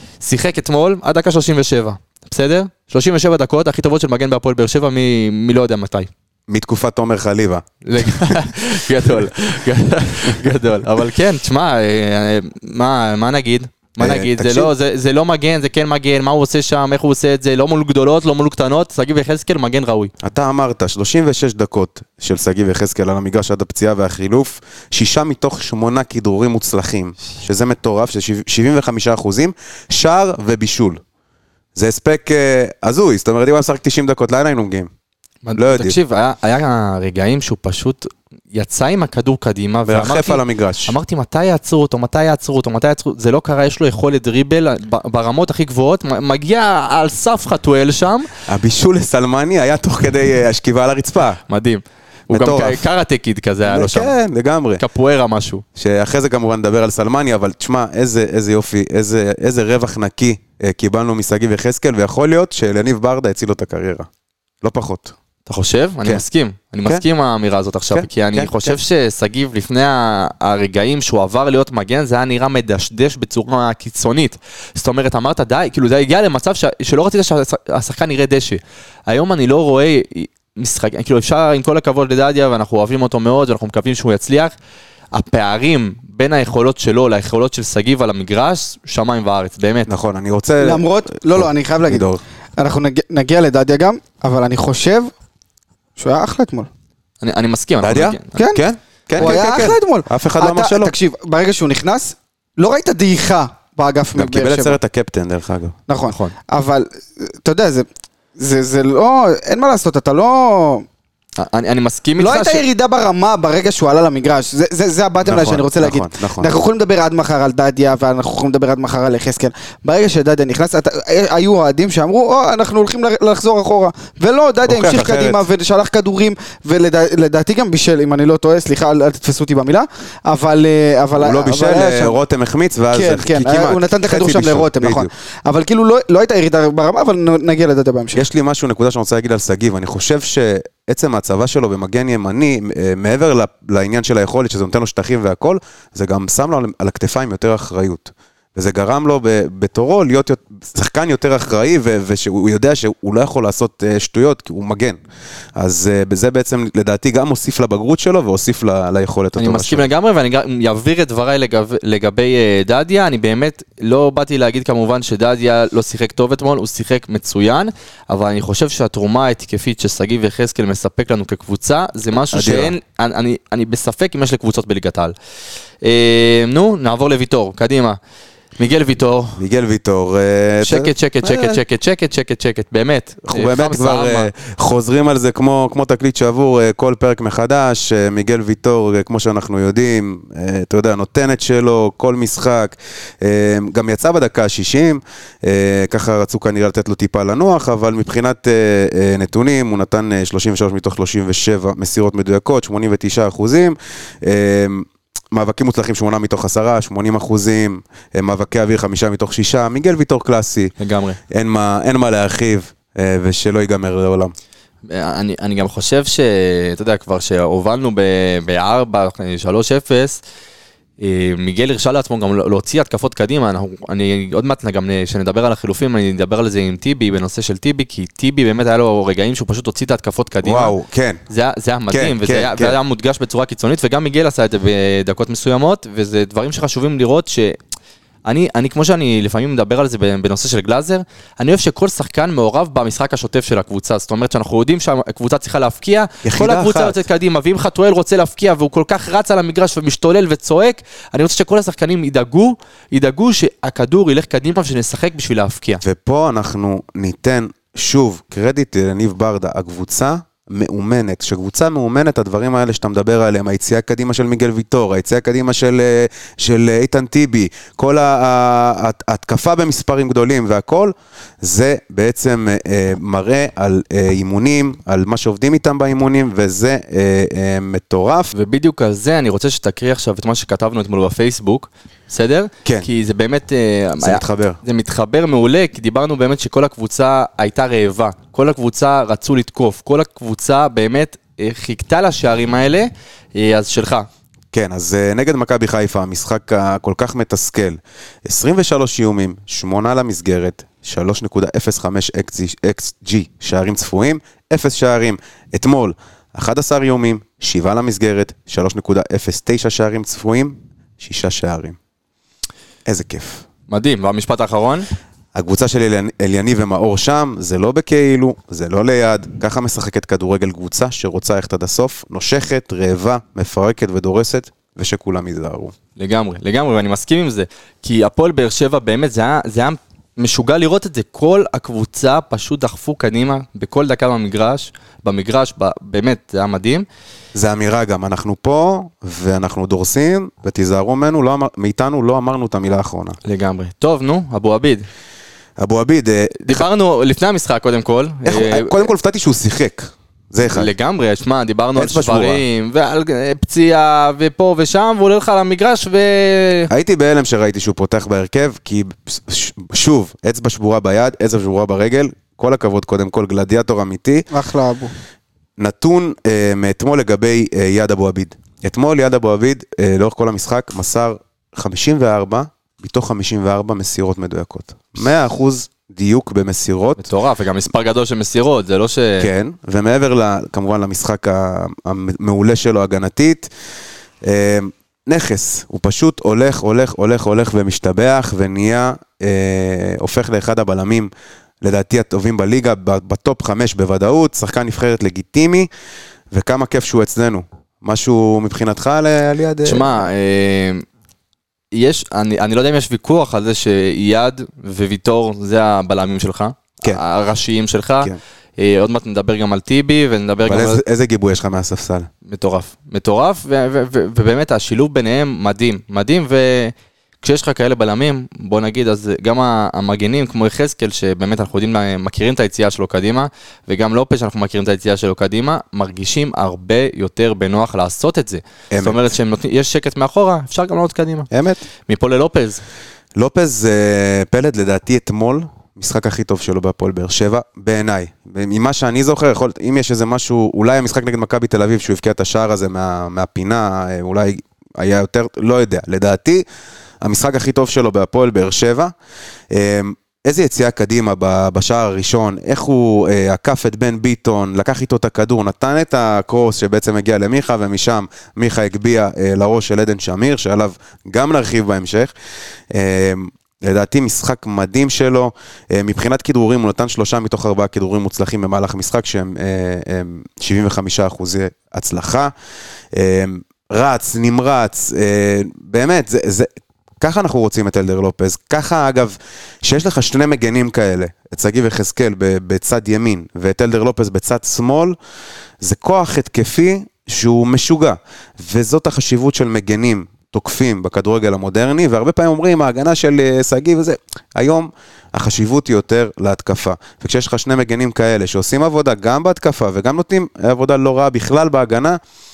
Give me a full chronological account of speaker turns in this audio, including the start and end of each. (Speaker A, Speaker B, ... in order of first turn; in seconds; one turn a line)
Speaker A: 0.2-6.1
Speaker B: 6.5-8.3
Speaker A: 7.8-20.1
Speaker B: 14.0-14.7
Speaker B: 20.2-31.0
Speaker B: 31.8-34.9
Speaker A: 35.4-48.3
Speaker B: 35.6-36.0
Speaker B: 39.9-40.9
Speaker B: 48.5-51.4
Speaker A: 51.5-54.1
Speaker B: 52.3-52.9
Speaker B: 53.7-54.8
Speaker A: 54.8-55.6
Speaker B: 55.8-64.1
Speaker B: 64.6-65.2
Speaker A: 65.5-84.5
Speaker B: 67.9-68.8
Speaker A: 85.1-89.9
Speaker B: 89.9-92.2
Speaker C: 90.6-92.1
Speaker C: 92.6-95.1
Speaker C: 96.0-96.7
Speaker A: 97.2-98.3
Speaker B: 97.8-100.9
Speaker C: 98.3-98.6
Speaker C: 99.2-104.8
Speaker B: 104.2-105.8
Speaker C: 105.9-107.9
Speaker A: 106.1-106.3
Speaker C: 108.4-110.9
Speaker A: 111.4-112.6
Speaker C: 112.2-132.2
Speaker B: 115.2-116.5
Speaker B: 124.7-125.4
Speaker B: 131.2-135.1
Speaker C: 132.9-138.2
Speaker B: 138.2-155.0
Speaker B: 155.6-159.9
Speaker A: 159.4-175.1
Speaker B: 172.3-172.7
Speaker A: 175.8-178.0
Speaker A: 178.6-179.4
Speaker B: 179.4-181.6
Speaker A: 180.6-184.3
Speaker B: 183.2-210.7
Speaker A: 210.8-211.2
Speaker B: 211.3-214.3
Speaker A: 214.9-220.2
Speaker A: 221.0-230.8
Speaker B: 230.4-231.2
Speaker A: 231.3-237.6
Speaker B: 231.9-232.8
Speaker A: 238.3-255.8
Speaker B: 246.2-247.0
Speaker B: 255.8-278.3
Speaker A: 278.3-294.1
Speaker B: 284.0-284.6
Speaker B: 294.5-311.8
Speaker B: 312.9-313.4
Speaker A: 313.7-314.9
Speaker B: 315.3-325.7
Speaker A: 326.0-336.9
Speaker B: 337.3-343.2
Speaker A: 343.2-344.9
Speaker B: 345.6-346.6
Speaker A: 346.4-348.9
Speaker B: 348.2-350.7
Speaker A: 350.4-356.7
Speaker B: 351.8-352.4
Speaker B: 356.7-364.3
Speaker C: 364.3-364.9
Speaker B: 365.6-377.1
Speaker A: 377.0-379.3
Speaker B: 379.2-383.5
Speaker B: 384.2-391.1
Speaker B: 391.6-395.7
Speaker B: 396.3-400.0
Speaker A: 399.6-400.9
Speaker A: 401.7-410.8
Speaker B: 410.5-412.1
Speaker A: 412.3-431.3
Speaker B: 428.7-429.1
Speaker B: 431.3-431.6
Speaker A: 431.9-432.6
Speaker B: 433.2-446.4
Speaker B: 447.0-448.9
Speaker B: 449.5-462.1
Speaker B: 462.7-472.3
Speaker B: 472.9-476.5
Speaker B: 477.0-485.0
Speaker B: 485.6-502.0